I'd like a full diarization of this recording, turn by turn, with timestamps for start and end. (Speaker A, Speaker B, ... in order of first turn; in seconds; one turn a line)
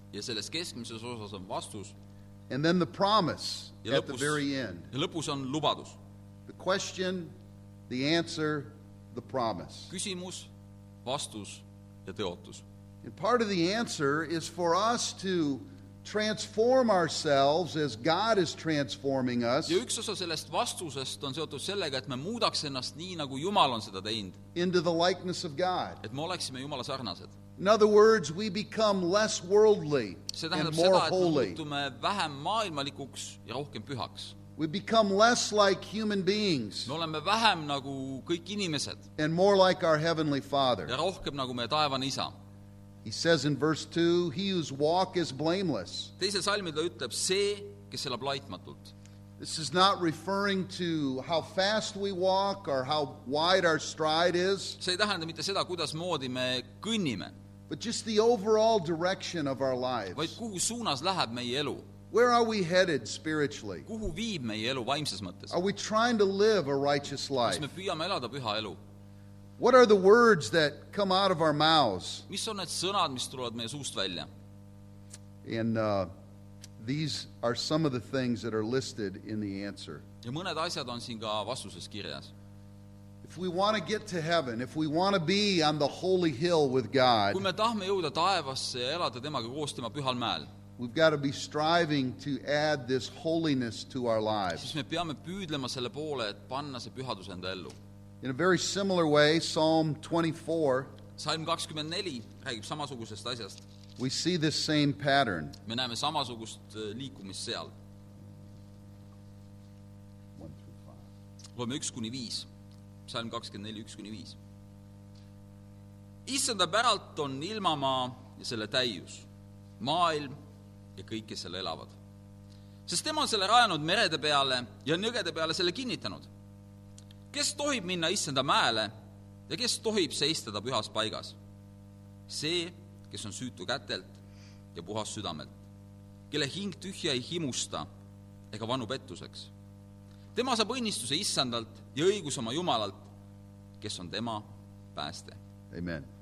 Speaker A: 0.1-1.9
Speaker B: 2.5-4.9
Speaker A: 3.9-6.0
Speaker B: 6.5-7.3
Speaker B: 7.9-9.9
Speaker A: 9.9-10.5
Speaker A: 11.0-12.6
Speaker B: 13.0-19.8
Speaker A: 19.7-24.4
Speaker B: 24.6-26.0
Speaker A: 26.0-27.3
Speaker B: 27.6-31.6
Speaker A: 30.3-34.4
Speaker B: 34.6-36.9
Speaker A: 36.9-39.0
Speaker B: 39.2-40.9
Speaker A: 40.9-42.3
Speaker B: 43.0-46.1
Speaker A: 46.2-48.9
Speaker B: 49.4-54.8
Speaker A: 54.8-57.3
Speaker B: 57.7-60.4
Speaker A: 60.1-61.9
Speaker B: 62.1-63.9
Speaker A: 63.9-65.5
Speaker B: 65.5-67.7
Speaker A: 67.4-68.8
Speaker B: 69.6-72.3
Speaker A: 72.3-74.3
Speaker B: 75.4-76.1
Speaker B: 76.8-80.0
Speaker A: 80.2-82.3
Speaker B: 83.2-87.4
Speaker A: 87.3-90.5
Speaker B: 90.8-94.8
Speaker A: 94.6-97.8
Speaker B: 98.2-100.9
Speaker A: 101.2-103.6
Speaker B: 104.0-105.6
Speaker A: 105.7-107.7
Speaker B: 110.4-111.1
Speaker A: 111.5-112.5
Speaker A: 113.1-114.4
Speaker A: 116.3-119.3
Speaker A: 119.8-120.4
Speaker A: 121.0-122.0
Speaker A: 122.9-126.3
Speaker A: 127.3-128.9
Speaker A: 129.5-131.4
Speaker A: 132.3-134.2
Speaker A: 134.7-135.5
Speaker A: 136.3-137.9
Speaker A: 138.5-139.5
Speaker A: 140.3-143.1
Speaker A: 143.8-145.4
Speaker B: 145.7-146.1